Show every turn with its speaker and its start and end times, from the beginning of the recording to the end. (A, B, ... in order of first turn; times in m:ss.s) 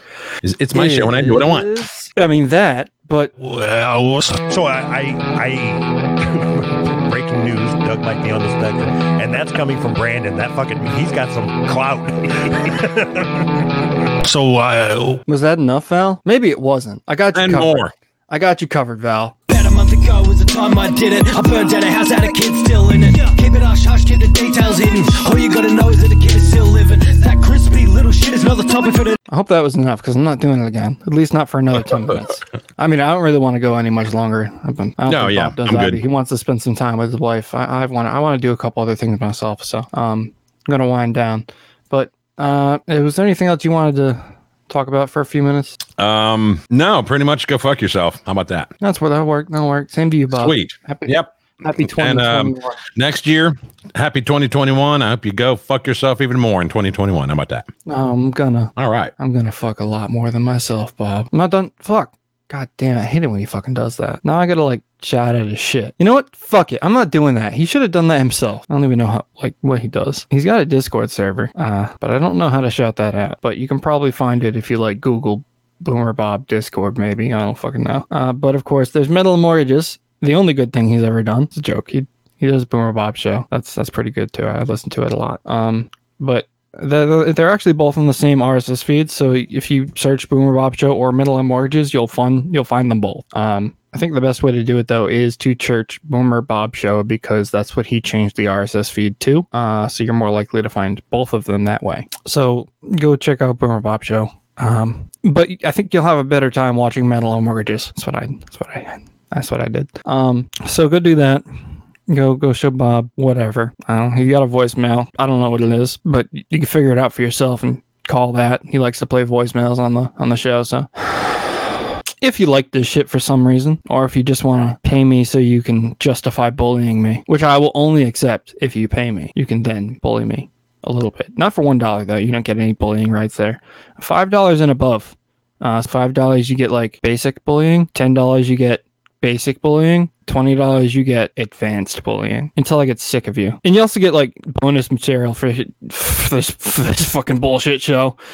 0:00.4-0:01.7 A
0:00.7-0:03.3 B
0:03.4-0:15.2 C
0:15.3-0:19.3 B
0:17.3-0:17.9 A
0:19.5-0:29.2 D
0:29.3-0:45.8 B
0:35.1-0:36.0 A
0:46.0-0:48.7 A
0:48.8-0:52.8 B
0:50.3-0:57.7 A
0:57.8-1:51.4 B
0:58.8-0:59.1 A
1:52.1-2:00.9 B
2:02.2-2:28.2 B